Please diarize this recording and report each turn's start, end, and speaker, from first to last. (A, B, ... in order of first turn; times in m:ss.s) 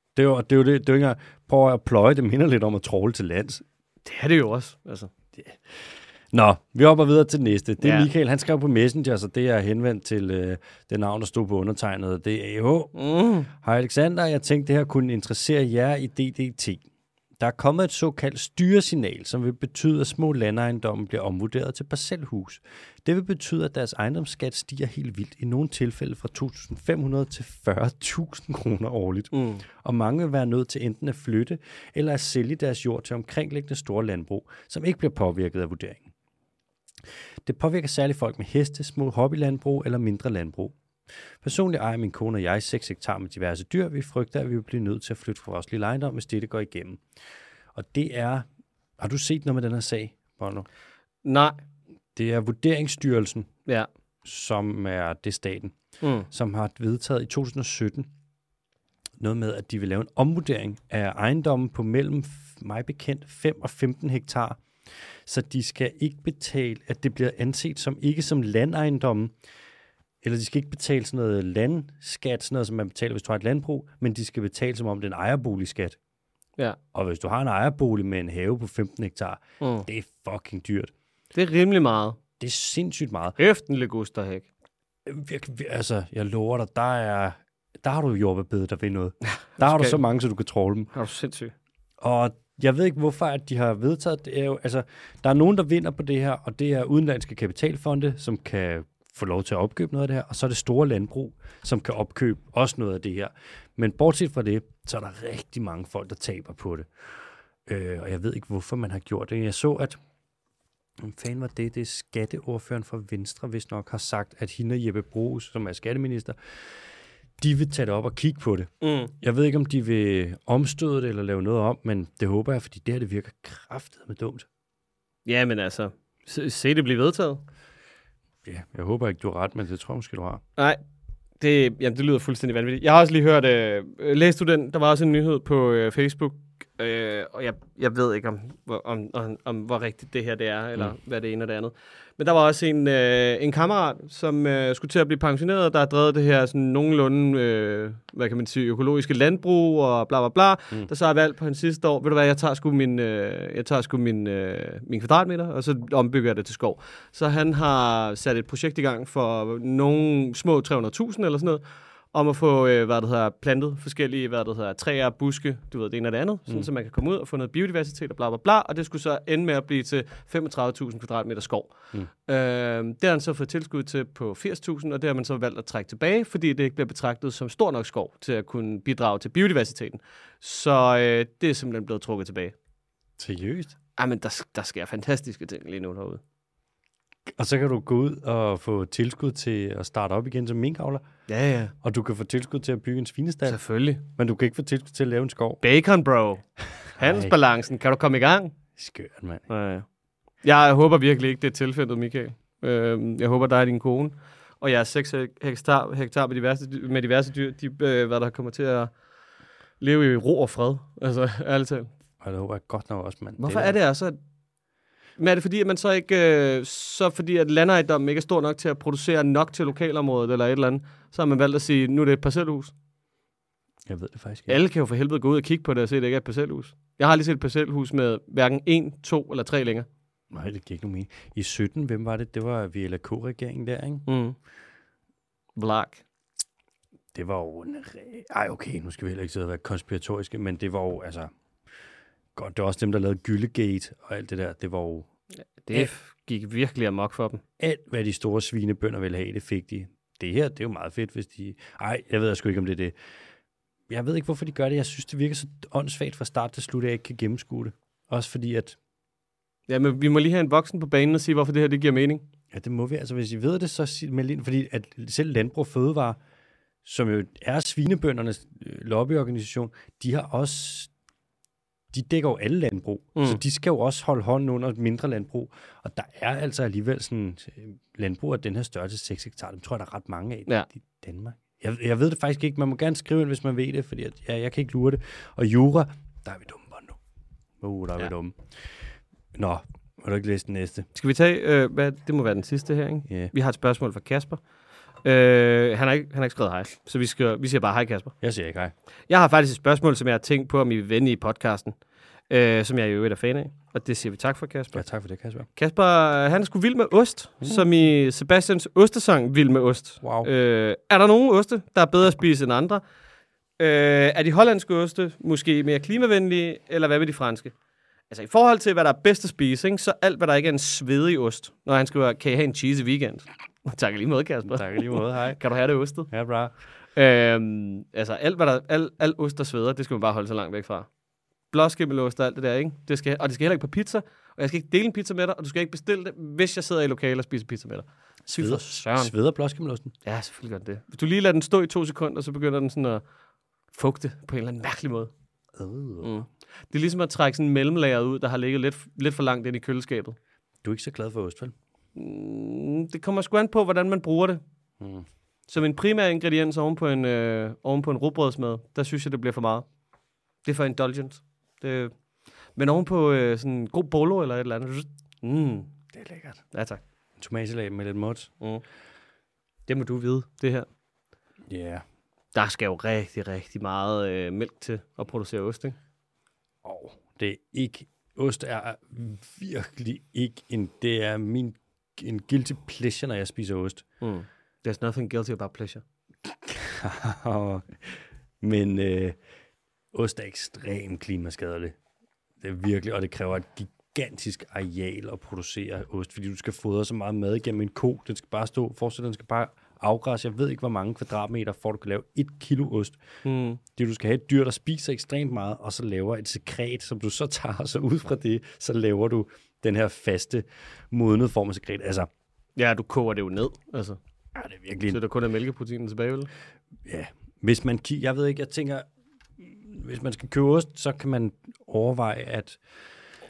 0:00.1-0:03.6 A
0:04.0-0:05.1 B
0:05.4-0:12.9 A
0:07.8-0:08.1 B
0:12.9-0:13.5 B
0:13.5-0:16.8 A
0:17.4-0:36.1 A
0:29.3-0:29.6 B
0:37.4-0:40.8 A
0:41.4-0:47.0 A
0:47.7-0:48.4 A
0:49.0-0:50.7 A
0:51.2-0:51.6 B
0:52.1-0:53.5 A
0:54.2-0:55.7 A
0:56.0-0:56.3 B
0:56.3-0:58.1 A
0:59.2-1:04.6 A
1:05.2-1:09.3 A
1:10.2-1:16.0 A
1:16.9-1:20.9 A
1:19.6-1:19.8 B
1:21.3-1:22.2 B
1:22.4-1:23.4 A
1:23.4-1:24.5 B
1:25.0-1:30.9 A
1:29.6-1:30.0 B
1:30.9-1:31.5 B
1:32.0-1:46.9 A
1:47.6-1:50.0 A
1:51.0-1:56.8 A
1:57.4-2:04.5 A
1:58.8-1:59.1 B
2:05.2-2:07.4 B
2:08.4-2:10.4 A
2:11.4-2:41.6 B
2:42.1-3:02.5 B
3:03.2-3:03.7 A
3:04.0-3:06.2 B
3:07.4-3:11.0 A
3:11.3-3:11.7 B
3:11.8-3:15.6 A
3:13.4-3:14.0 B
3:15.6-3:16.4 B
3:16.9-3:17.4 A
3:17.0-3:18.6 B
3:18.8-3:19.4 A
3:19.5-3:19.8 B
3:20.4-3:28.9 B
3:29.8-3:31.9 B
3:32.2-3:33.8 A
3:33.4-3:34.2 B
3:35.2-3:42.7 B
3:43.8-3:44.6 A
3:44.5-3:49.9 B
3:50.3-3:54.1 A
3:54.1-3:54.4 B
3:55.6-3:56.0 B
3:57.1-4:01.3 A
4:02.3-4:05.1 A
4:05.6-4:07.4 B
4:07.6-4:12.9 A
4:13.9-4:18.8 A
4:19.7-4:22.2 B
4:22.5-4:26.2 A
4:26.8-4:30.9 A
4:31.9-4:47.0 A
4:33.2-4:33.4 B
4:47.6-4:48.4 A
4:49.3-4:50.9 A
4:50.9-4:54.4 B
4:55.0-4:58.1 B
4:58.2-4:58.7 A
4:59.1-5:01.8 B
5:02.3-5:04.8 B
5:04.7-5:05.5 A
5:05.6-5:12.8 B
5:10.0-5:10.3 A
5:13.6-5:17.5 B
5:18.1-5:26.1 B
5:24.4-5:25.4 A
5:26.1-5:26.5 A
5:27.0-5:30.9 B
5:31.5-5:39.1 B
5:38.3-5:39.9 A
5:40.0-5:43.0 B
5:43.7-5:45.1 B
5:45.5-5:46.2 A
5:46.0-5:50.2 B
5:50.6-5:51.5 A
5:52.0-5:54.4 B
5:54.8-5:55.0 A
5:55.5-5:59.6 B
6:00.4-6:01.9 B
6:02.6-6:05.7 B
6:05.9-6:06.4 A
6:06.5-6:06.8 B
6:07.2-6:08.3 A
6:09.7-6:10.7 B
6:11.5-6:11.8 A
6:12.3-6:15.8 B
6:16.6-6:23.8 A
6:24.0-6:25.8 B
6:26.3-6:29.2 A
6:29.9-6:31.8 A
6:32.4-6:43.0 A
6:43.2-6:43.6 B
6:43.7-6:52.1 A
6:52.6-6:54.0 B
6:54.3-6:55.0 A
6:54.9-6:56.3 B
6:56.8-6:58.8 A
6:59.4-7:02.6 A